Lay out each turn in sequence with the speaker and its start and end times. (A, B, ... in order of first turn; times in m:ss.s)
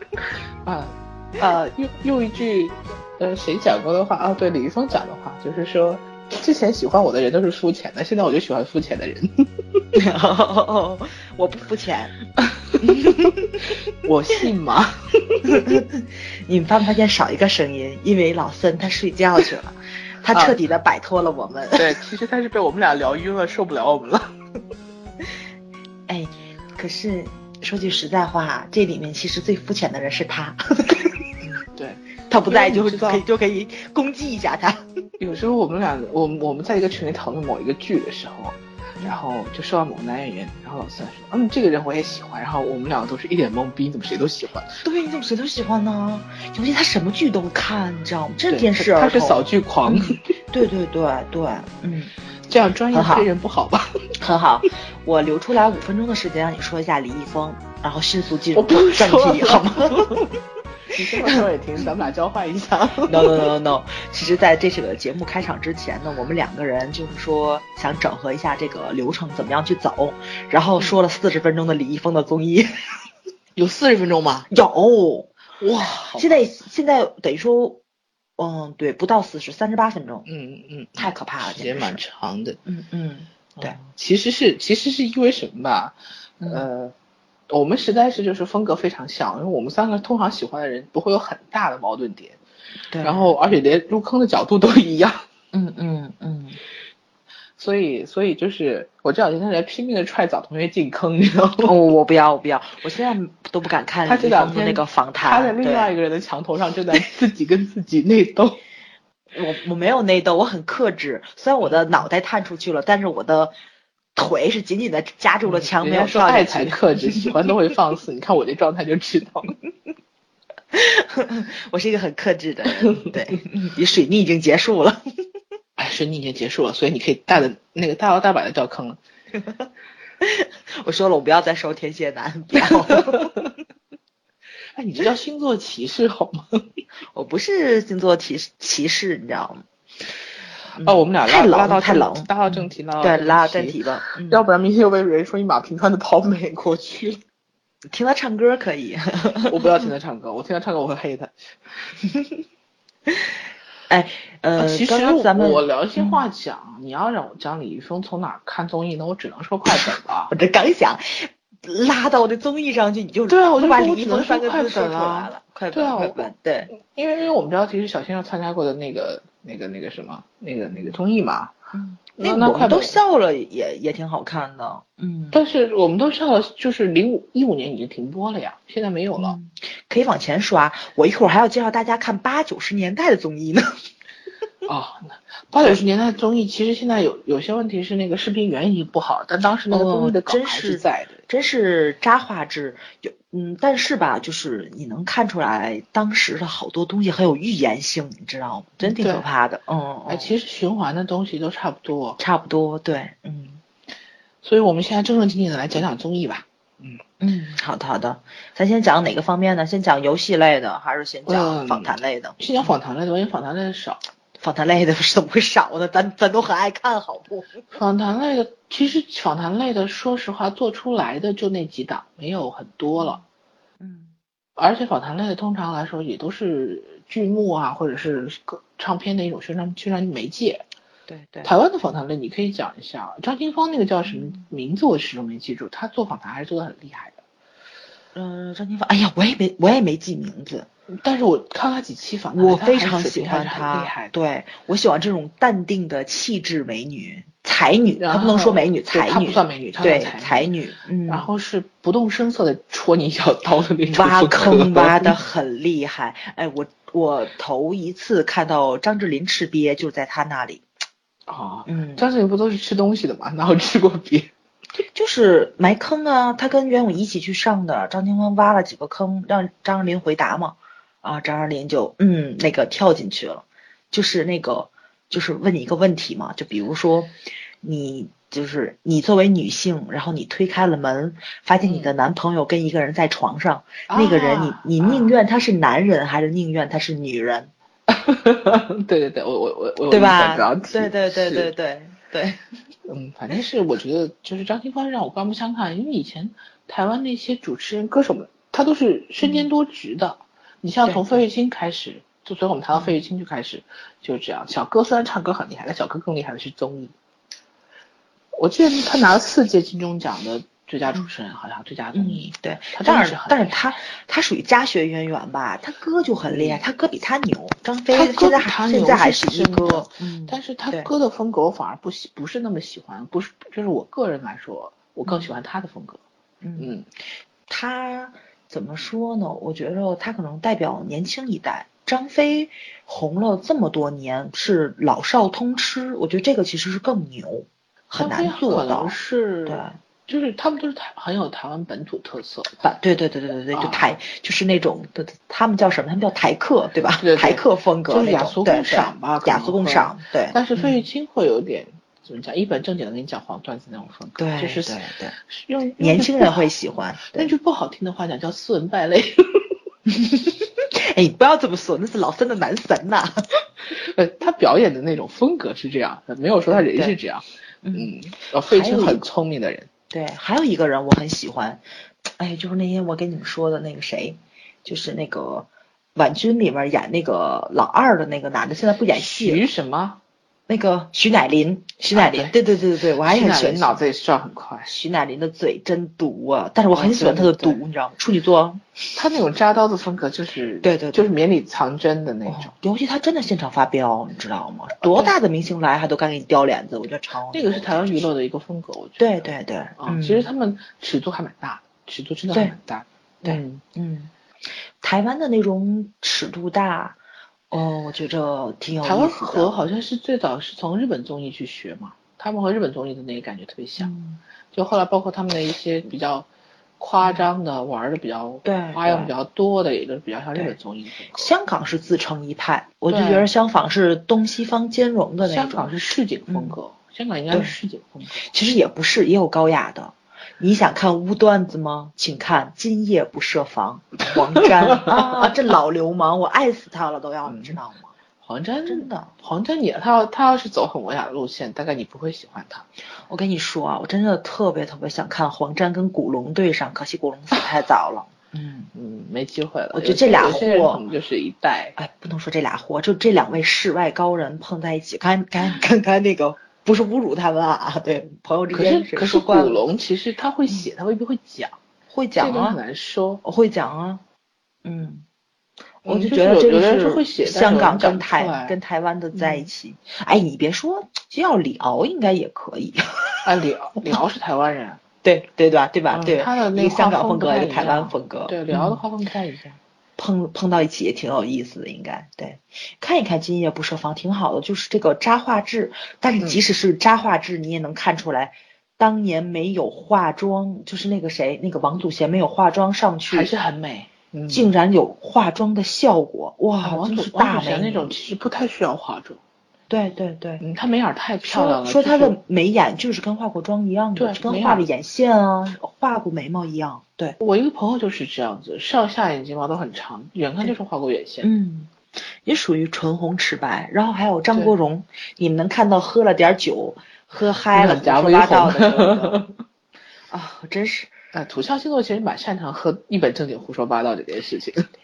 0:00.6-0:09.4 A
0:01.4-0:01.7 B
0:10.0-0:12.2 B
0:12.8-0:13.5 B
0:14.0-0:15.5 A
0:15.5-0:22.0 B
0:21.8-0:24.3 A
0:26.1-0:31.2 B
0:31.4-0:33.2 A
0:32.3-0:34.8 B
0:35.2-0:44.8 A
0:44.8-0:52.1 B
0:48.5-0:50.3 A
0:52.5-0:53.9 A
0:52.9-0:53.3 B
0:54.2-1:00.1 B
0:58.5-1:00.3 A
1:00.9-1:03.4 A
1:03.1-1:12.7 B
1:13.6-1:14.5 A
1:14.5-1:15.3 B
1:15.6-1:16.4 A
1:16.1-1:17.8 B
1:18.4-1:20.2 B
1:20.3-1:22.6 A
1:21.0-1:22.0 B
1:22.7-1:23.8 B
1:23.6-1:27.0 A
1:26.4-1:26.7 B
1:27.5-1:32.4 A
1:32.9-1:33.3 B
1:33.0-1:35.2 A
1:35.5-1:36.6 B
1:37.6-1:41.7 A
1:41.6-1:45.9 B
1:44.1-1:48.6 A
1:49.3-1:53.5 B
1:54.2-1:57.3 B
1:55.5-1:59.5 A
2:00.7-2:05.0 B
2:05.8-2:09.0 A
2:09.4-2:09.6 B
2:10.2-2:13.4 B
2:12.6-2:13.3 A
2:14.8-2:16.6 A
2:17.1-2:19.6 B
2:20.8-2:24.4 B
2:20.8-2:27.2 A
2:27.9-2:29.7 B
2:29.4-2:31.3 A
2:33.1-2:33.4 B
2:33.9-2:36.2 B
2:34.6-2:40.3 A
2:40.3-2:46.7 B
2:43.3-2:51.5 A
2:51.7-2:55.4 B
2:52.2-2:53.0 A
2:55.3-2:59.4 A
2:59.2-3:03.7 B
3:04.7-3:11.2 A
3:09.7-3:20.3 B
3:18.8-3:19.2 A
3:20.1-3:22.2 A
3:22.2-3:23.6 B
3:24.4-3:27.0 A
3:27.2-3:32.4 B
3:31.3-3:34.0 A
3:34.4-3:37.6 B
3:37.7-3:43.2 A
3:43.8-3:44.1 B
3:44.6-3:50.6 A
3:51.1-3:51.5 B
3:51.4-3:57.2 A
3:54.1-3:54.4 B
3:58.1-4:00.7 B
4:00.9-4:04.1 A
4:02.4-4:11.3 B
4:08.0-4:10.5 A
4:11.1-4:15.2 A
4:13.9-4:20.6 B
4:21.3-4:24.3 A
4:21.7-4:22.1 B
4:24.8-4:47.5 B
4:41.6-4:41.9 A
4:43.9-4:45.1 A
4:47.9-4:51.5 A
4:49.9-4:52.4 B
4:52.9-5:06.9 A
4:59.2-4:59.5 B
5:00.9-5:01.2 B
5:08.4-5:13.6 A
5:11.9-5:20.9 B
5:16.3-5:16.6 A
5:17.9-5:26.0 A
5:26.4-5:26.7 B
5:26.6-5:26.9 A
5:27.5-5:39.0 B
5:38.0-5:42.5 A
5:39.5-5:39.8 B
5:42.6-5:50.8 B
5:43.5-5:43.9 A
5:47.0-5:56.4 A
5:54.2-5:55.2 B
5:55.8-5:57.3 B
5:57.1-5:59.4 A
5:59.9-6:03.2 B
6:03.7-6:09.7 A
6:06.5-6:07.0 B
6:07.6-6:07.9 B
6:08.4-6:09.0 B
6:09.9-6:19.4 B
6:18.9-6:20.0 A
6:20.5-6:23.8 B
6:21.9-6:22.4 A
6:23.0-6:24.8 A
6:24.7-6:28.7 B
6:26.7-6:27.6 A
6:29.0-6:32.5 A
6:30.6-6:31.1 B
6:32.3-6:38.1 B
6:34.8-6:35.1 A
6:37.3-6:39.1 A
6:39.0-6:40.3 B
6:39.8-6:43.6 A
6:42.3-6:42.6 B
6:43.2-6:44.1 B
6:44.8-6:47.0 B
6:47.5-6:49.5 B
6:48.8-6:53.9 A
6:53.8-6:54.2 B
6:54.5-6:56.3 A
6:56.8-7:01.3 A
6:58.4-6:59.1 B
7:01.2-7:05.7 B
7:02.9-7:03.3 A
7:05.2-7:08.3 A
7:06.3-7:06.6 B
7:08.2-7:17.9 B
7:14.2-7:15.3 A
7:17.3-7:17.6 A
7:18.2-7:22.7 A
7:18.7-7:19.1 B
7:23.1-7:28.7 B
7:28.7-7:31.8 A
7:29.7-7:30.8 B
7:31.8-7:39.6 B
7:38.5-7:41.6 A
7:41.9-7:42.6 B
7:42.2-7:43.2 A
7:43.2-7:44.0 B
7:44.6-7:45.0 B
7:45.8-7:48.6 A
7:45.9-7:53.3 B
7:49.1-7:49.5 A
7:53.2-7:54.8 A
7:55.0-7:58.8 B
7:55.9-7:59.6 A
8:00.0-8:13.3 B
8:13.1-8:14.5 A
8:14.3-8:17.9 B
8:16.6-8:19.2 A
8:19.7-8:20.4 B
8:20.4-8:22.2 A
8:21.2-8:27.2 B
8:24.0-8:24.7 A
8:27.2-8:31.3 A
8:31.2-8:39.2 B
8:37.6-8:39.3 A
8:40.1-8:41.0 B
8:41.1-8:44.7 A